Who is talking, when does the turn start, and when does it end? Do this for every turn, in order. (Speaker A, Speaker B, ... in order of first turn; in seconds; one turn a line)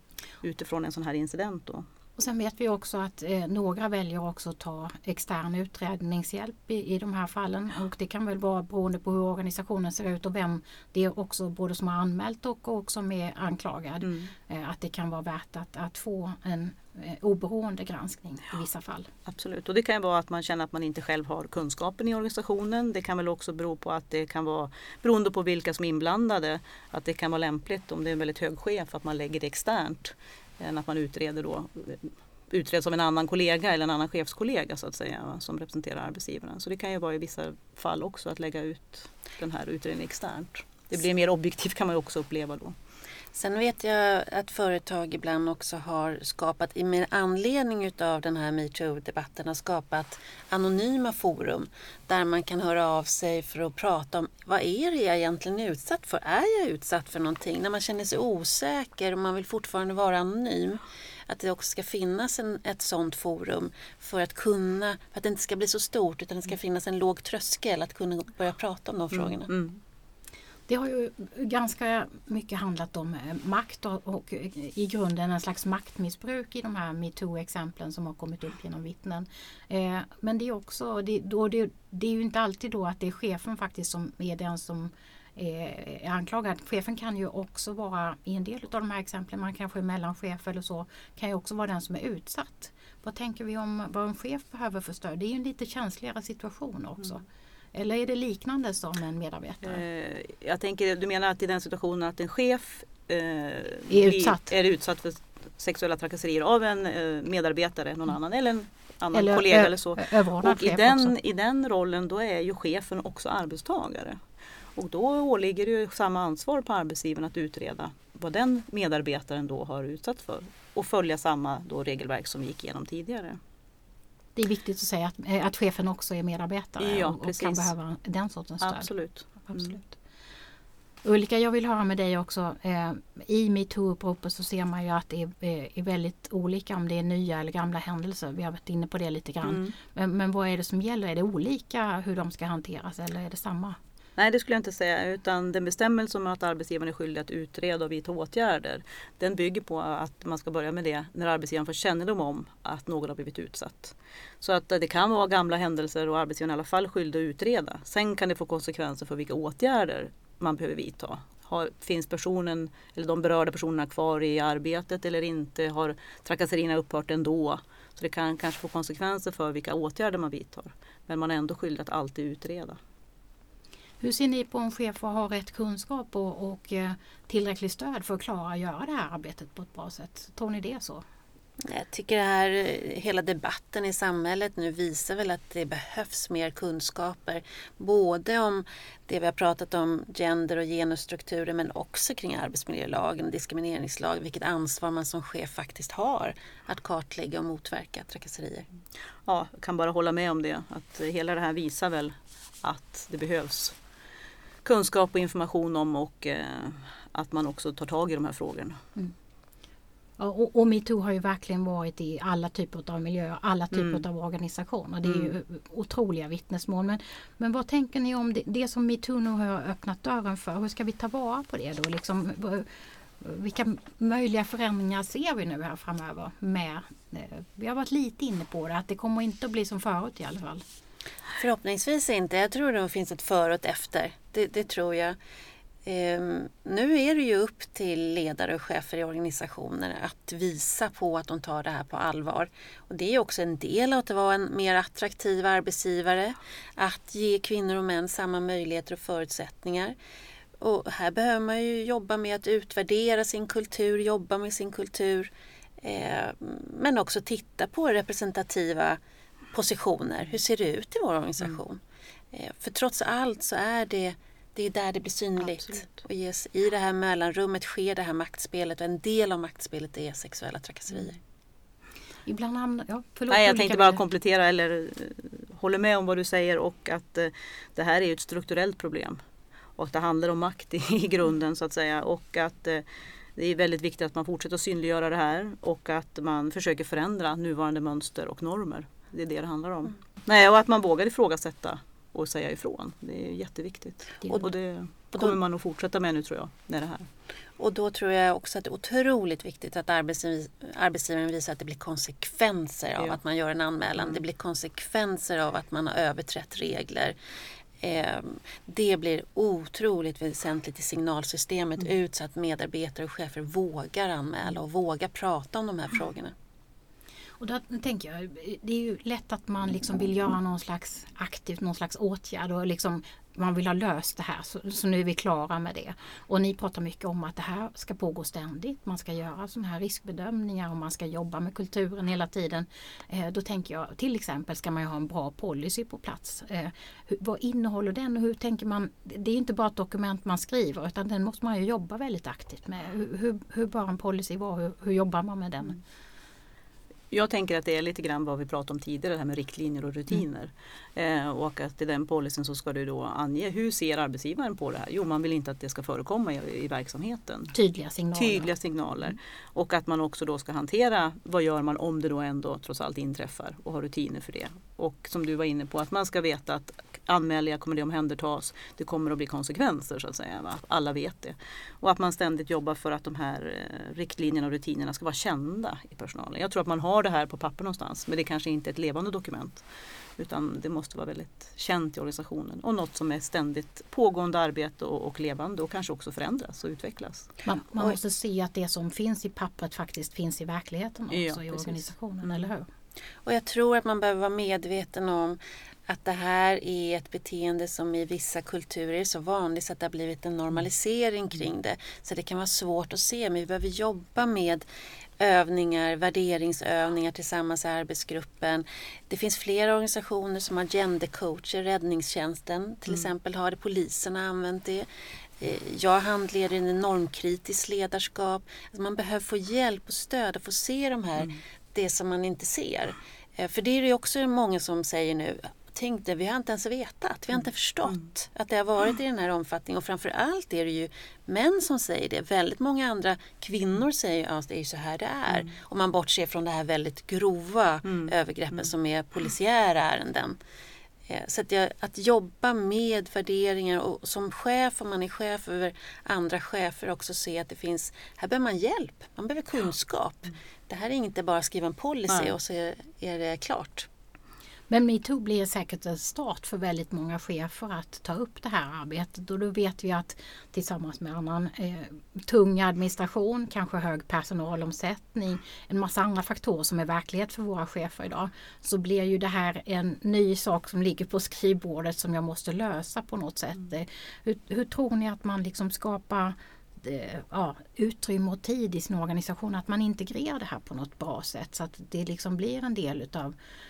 Speaker A: 0.4-1.9
Speaker B: 2.2-19.1
Speaker A: 14.0-14.3
Speaker A: 19.2-42.8
Speaker C: 43.3-69.5
Speaker A: 69.1-69.8
Speaker B: 70.7-99.8
Speaker A: 99.6-114.2
Speaker B: 103.9-104.5
Speaker B: 109.1-111.1
Speaker A: 114.7-123.4
Speaker B: 124.3-129.9
Speaker A: 126.8-127.7
Speaker A: 128.6-129.8
Speaker B: 131.0-143.8
Speaker A: 139.4-139.7
Speaker A: 144.2-172.8
Speaker B: 174.0-181.0
Speaker C: 181.6-198.7
Speaker A: 199.2-203.8
Speaker A: 204.6-208.8
Speaker B: 210.2-222.7
Speaker A: 213.7-214.0
Speaker A: 215.0-215.3
Speaker B: 223.2-230.6
Speaker C: 231.4-235.2
Speaker C: 235.8-249.9
Speaker C: 250.6-259.0
Speaker C: 259.5-261.8
Speaker C: 262.3-271.2
Speaker A: 265.6-265.9
Speaker B: 272.2-274.0
Speaker A: 273.3-279.2
Speaker A: 279.8-282.8
Speaker A: 283.4-297.1
Speaker C: 297.6-307.1
Speaker C: 307.8-316.3
Speaker B: 317.4-345.8
Speaker A: 347.1-357.5
Speaker B: 357.5-358.5
Speaker A: 358.1-379.6
Speaker A: 380.2-387.3
Speaker B: 387.4-392.6
Speaker A: 391.1-391.9
Speaker C: 393.2-404.6
Speaker C: 405.2-414.9
Speaker C: 415.4-440.4
Speaker A: 437.9-438.6
Speaker C: 441.1-453.9
Speaker B: 454.7-483.3